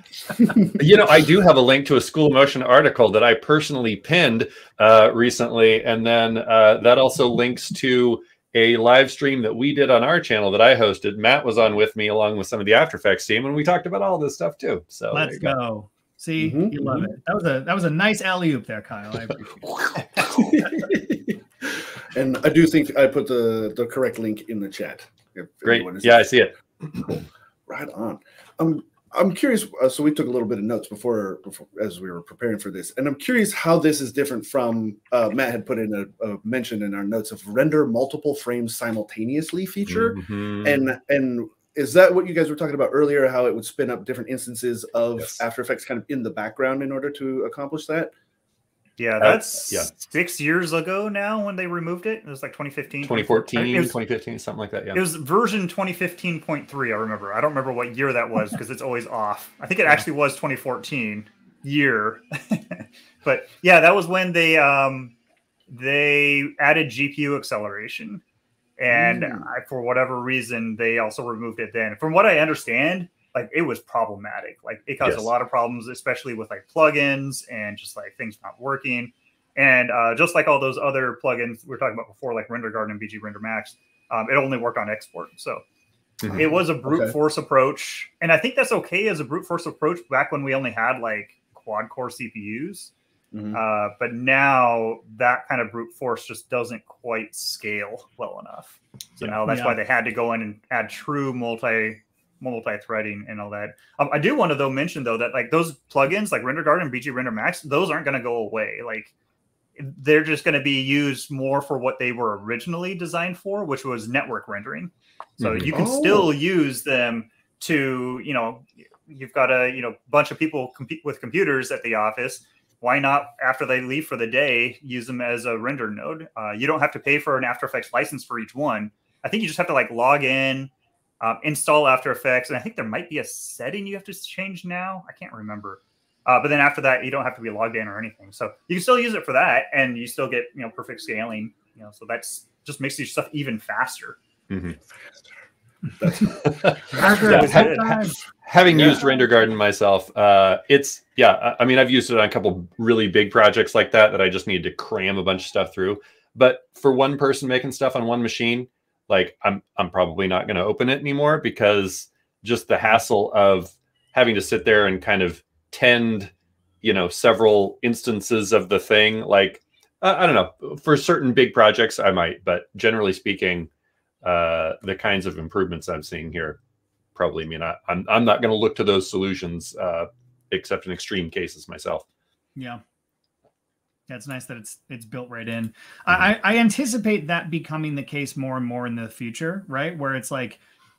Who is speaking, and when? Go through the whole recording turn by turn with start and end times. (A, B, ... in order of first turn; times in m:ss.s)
0:00.3-0:00.7 A
0:00.8-0:15.6 B
0:15.1-0:20.7 A
0:16.4-0:17.1 C
0:20.4-0:26.3 C
0:25.6-0:27.2 B
0:27.7-0:48.1 C
0:39.9-0:40.9 B
0:49.0-0:54.0 D
0:49.2-0:49.9 B
0:53.0-0:55.0 B
0:54.9-1:05.2 D
1:05.7-1:08.2 D
1:08.8-1:25.6 D
1:08.9-1:09.5 C
1:15.0-1:15.3 B
1:26.3-1:27.2 C
1:26.4-1:32.9 D
1:33.3-1:33.6 C
1:33.5-1:49.1 D
1:39.5-1:39.8 A
1:49.8-2:24.2 D
1:55.4-1:55.8 B
1:55.7-1:56.3 C
2:24.5-2:24.8 B
2:26.0-2:27.2 C
2:26.4-2:53.7 B
2:26.9-2:28.2 A
2:26.9-2:28.0 D
2:28.7-2:29.1 C
2:54.2-2:56.6 B
2:57.2-3:02.0 B
3:02.6-3:02.8 A
3:04.1-3:10.6 A